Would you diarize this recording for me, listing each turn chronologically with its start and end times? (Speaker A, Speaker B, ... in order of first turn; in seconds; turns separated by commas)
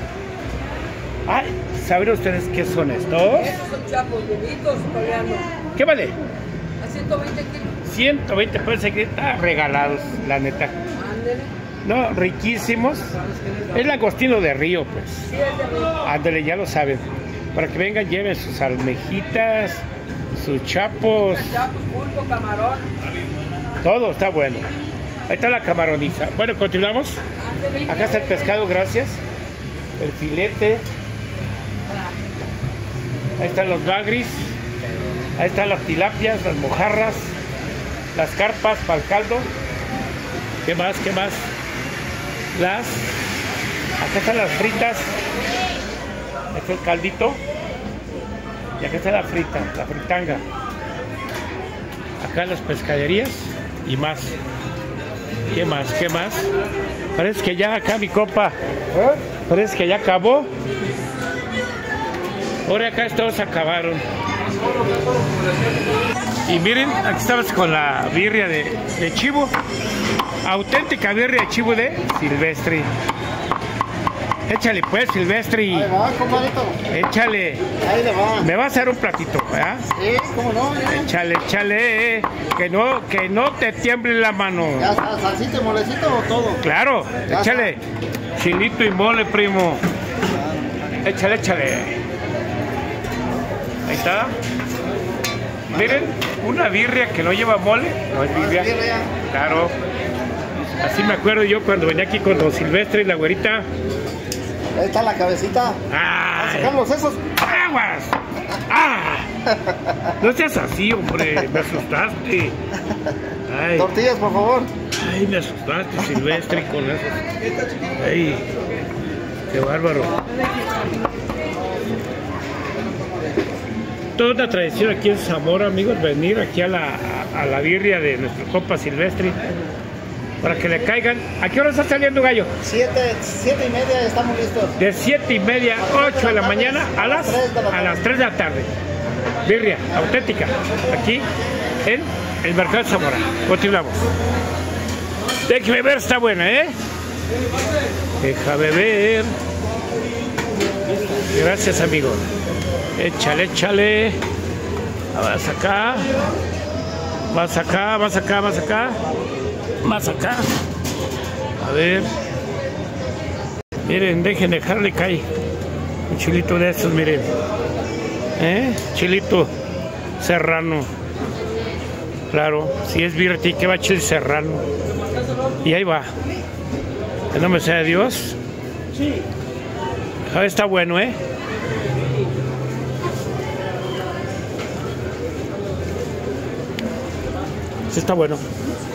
Speaker A: 1.3-3.6, Speaker B: 3.8-5.4, Speaker A: 5.7-6.2, Speaker B: 7.0-7.5, Speaker A: 7.8-10.8, Speaker A: 11.8-13.1, Speaker A: 13.7-15.3, Speaker A: 16.0-21.7, Speaker B: 21.9-22.8, Speaker A: 23.8-24.7, Speaker A: 25.3-27.2, Speaker A: 27.8-29.2, Speaker A: 30.0-30.9, Speaker A: 33.4-34.5, Speaker A: 35.4-37.3, Speaker A: 38.1-39.5, Speaker A: 40.6-41.5, Speaker A: 42.5-43.2, Speaker A: 44.0-45.2, Speaker A: 46.5-47.4, Speaker A: 48.8-50.4, Speaker A: 52.2-54.4, Speaker A: 55.5-56.5, Speaker A: 57.1-58.5, Speaker A: 59.4-60.5, Speaker A: 62.6-64.0, Speaker A: 66.5-69.5, Speaker A: 70.4-72.9, Speaker A: 74.5-75.9, Speaker C: 75.7-76.8, Speaker A: 76.9-77.7, Speaker C: 77.8-78.5, Speaker A: 78.4-79.9, Speaker C: 80.0-81.1, Speaker A: 80.9-85.0, Speaker C: 84.8-86.6, Speaker A: 86.6-87.8, Speaker C: 87.3-87.7, Speaker A: 88.4-89.8, Speaker C: 90.3-90.8, Speaker A: 91.0-92.0, Speaker A: 93.8-94.3, Speaker C: 95.7-96.1, Speaker A: 95.7-99.7, Speaker C: 98.3-99.1, Speaker A: 100.8-103.7, Speaker C: 104.7-105.8, Speaker A: 105.9-106.8, Speaker C: 106.3-107.3, Speaker A: 107.3-109.3, Speaker A: 110.2-112.6, Speaker A: 113.5-113.9, Speaker C: 113.8-114.7, Speaker A: 114.9-117.1, Speaker A: 118.0-118.5, Speaker A: 119.5-120.1, Speaker A: 124.1-129.5, Speaker A: 130.4-132.5, Speaker C: 132.6-134.7, Speaker A: 134.8-138.7, Speaker C: 135.8-138.0, Speaker A: 139.4-141.2, Speaker A: 141.8-144.0, Speaker A: 145.4-146.7, Speaker A: 148.2-149.3, Speaker A: 151.3-152.2, Speaker A: 152.9-154.2, Speaker A: 155.1-156.1, Speaker A: 157.3-159.0, Speaker A: 159.8-160.5, Speaker A: 161.6-162.1, Speaker A: 163.8-165.2, Speaker A: 166.1-167.3, Speaker A: 168.4-169.5, Speaker A: 170.2-170.9, Speaker A: 172.3-174.6, Speaker A: 175.6-176.1, Speaker A: 177.3-178.4, Speaker A: 180.3-181.2, Speaker A: 187.9-188.4